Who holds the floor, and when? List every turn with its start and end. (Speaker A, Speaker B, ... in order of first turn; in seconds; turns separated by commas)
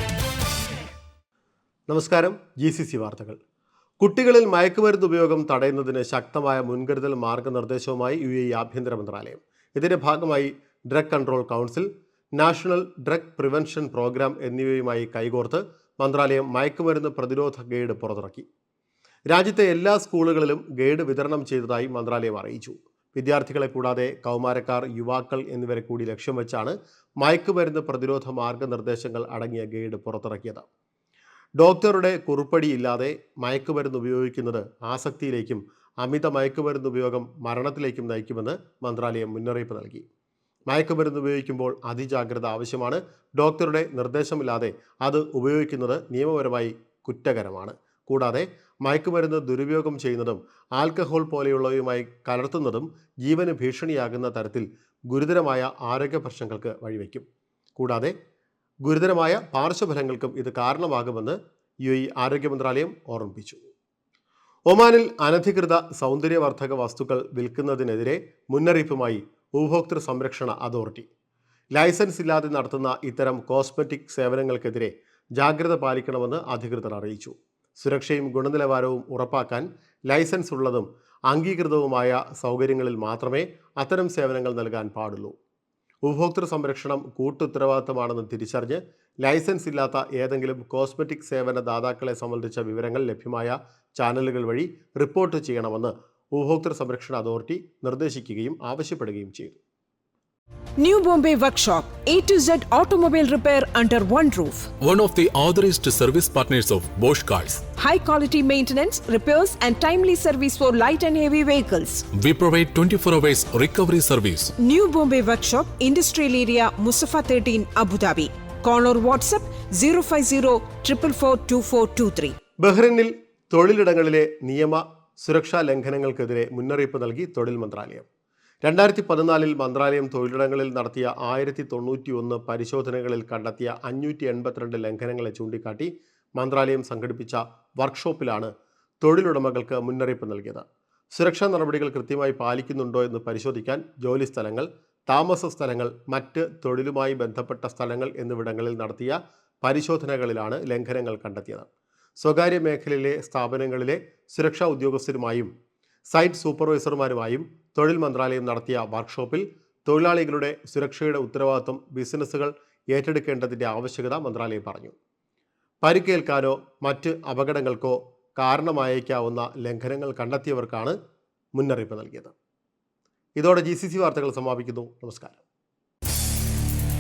Speaker A: 1.9-3.4, Speaker A: 4.0-18.5, Speaker A: 19.3-30.6, Speaker A: 31.6-40.0, Speaker A: 40.7-57.2, Speaker A: 57.8-58.1, Speaker A: 58.8-63.6, Speaker A: 64.7-71.1, Speaker A: 71.7-85.3, Speaker A: 86.0-99.6, Speaker B: 100.8-104.7, Speaker C: 104.8-107.6, Speaker B: 107.7-112.1, Speaker C: 112.1-114.5, Speaker B: 114.6-122.4, Speaker A: 122.6-128.1, Speaker A: 128.6-151.7, Speaker A: 152.2-155.5, Speaker A: 156.1-164.9, Speaker A: 165.8-171.0, Speaker A: 171.6-172.3, Speaker A: 173.4-175.4